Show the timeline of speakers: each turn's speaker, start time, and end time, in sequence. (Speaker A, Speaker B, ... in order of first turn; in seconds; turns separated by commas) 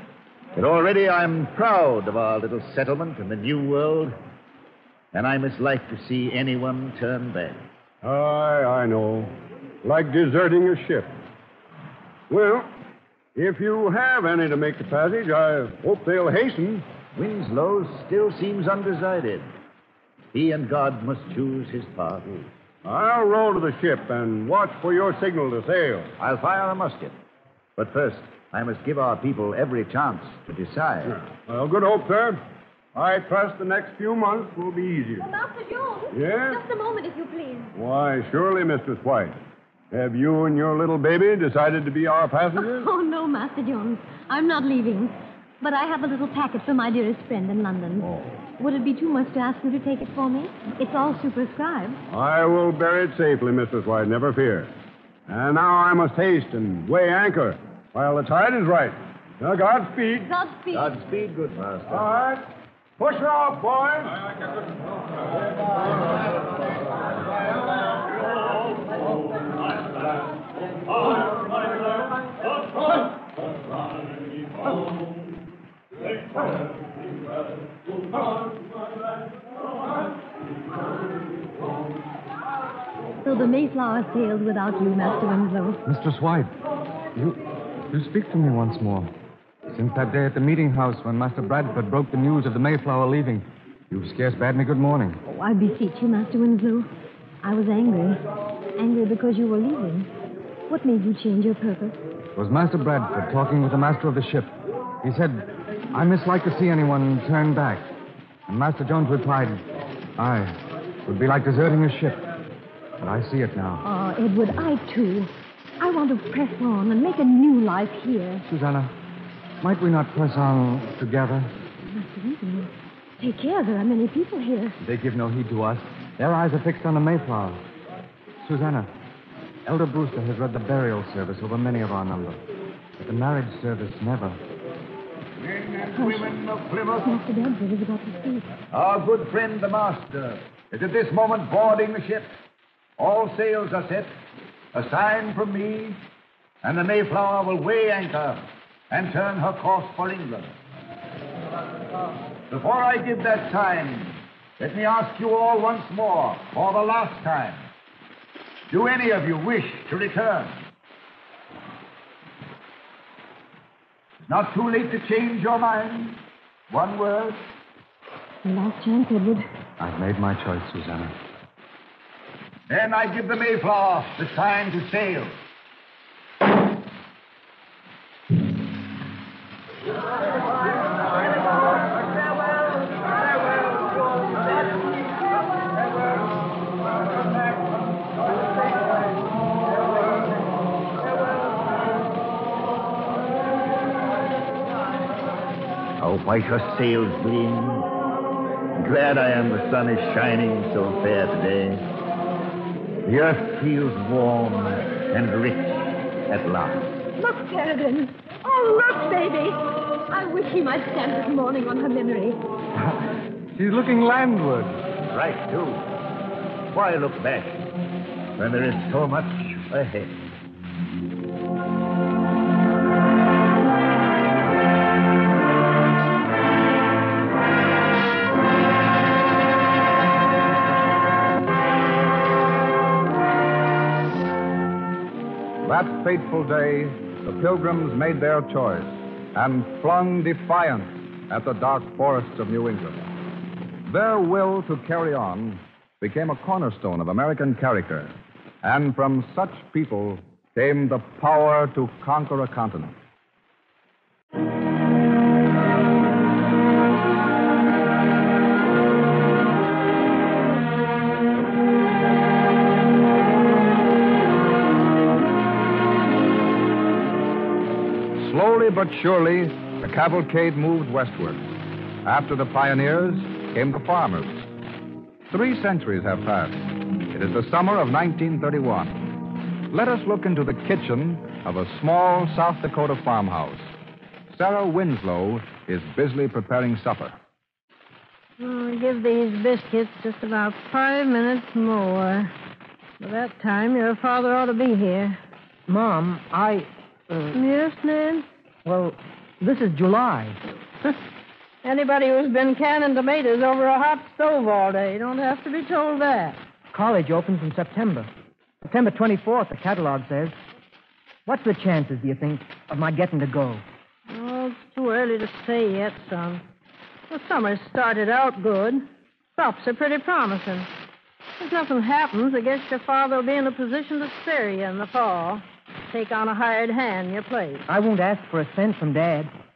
Speaker A: 0.6-4.1, Speaker A: 5.1-7.7, Speaker B: 8.0-11.1, Speaker B: 12.3-12.7, Speaker B: 13.4-16.8, Speaker A: 17.1-19.4, Speaker A: 20.3-22.3, Speaker B: 22.8-26.1, Speaker A: 26.2-27.1, Speaker A: 27.8-31.2, Speaker B: 31.1-32.4, Speaker B: 32.9-35.3, Speaker C: 35.2-37.7, Speaker B: 36.1-36.6, Speaker B: 37.8-39.4, Speaker B: 39.9-42.9, Speaker C: 42.5-52.0, Speaker B: 52.1-54.7, Speaker B: 55.3-60.3, Speaker C: 60.3-60.9, Speaker A: 60.7-62.1, Speaker B: 61.9-62.4, Speaker B: 63.0-64.1, Speaker C: 83.2-85.8, Speaker D: 85.8-86.6, Speaker D: 87.9-89.1, Speaker D: 89.7-95.2, Speaker C: 95.3-96.9, Speaker C: 97.4-98.2, Speaker C: 98.8-100.1, Speaker C: 100.7-102.0, Speaker D: 102.3-107.9, Speaker D: 108.5-109.6, Speaker D: 110.2-112.2, Speaker D: 113.0-113.8, Speaker C: 113.8-118.4, Speaker D: 118.5-118.9, Speaker D: 119.6-121.5, Speaker C: 121.9-124.8, Speaker D: 124.8-127.6, Speaker D: 128.4-128.9, Speaker D: 129.7-132.4, Speaker D: 133.0-134.4, Speaker A: 135.4-137.2, Speaker C: 136.0-136.3, Speaker C: 137.0-138.5, Speaker A: 138.7-142.3, Speaker A: 143.0-144.1, Speaker A: 144.7-146.0, Speaker A: 146.6-150.5, Speaker A: 152.5-157.7, Speaker A: 158.7-160.6, Speaker A: 164.3-167.4, Speaker C: 168.4-169.4, Speaker D: 169.8-171.2, Speaker A: 172.7-175.4, Speaker A: 196.0-197.9, Speaker A: 198.7-201.8, Speaker A: 203.1-207.0, Speaker C: 207.2-212.4, Speaker D: 213.5-214.8, Speaker A: 215.1-215.8, Speaker A: 216.7-217.7, Speaker A: 218.3-220.2, Speaker E: 235.6-243.1, Speaker E: 243.8-253.0, Speaker E: 268.2-271.5, Speaker E: 272.0-274.5, Speaker E: 275.3-283.7, Speaker E: 284.3-287.2, Speaker F: 288.4-292.3, Speaker F: 293.0-295.2, Speaker G: 295.7-297.4, Speaker F: 297.3-298.2, Speaker G: 298.7-300.4, Speaker F: 301.6-306.4, Speaker G: 306.7-308.1, Speaker G: 308.6-310.3, Speaker G: 311.2-313.6, Speaker F: 314.1-316.4, Speaker F: 317.1-320.7, Speaker F: 321.4-327.6, Speaker G: 327.7-329.3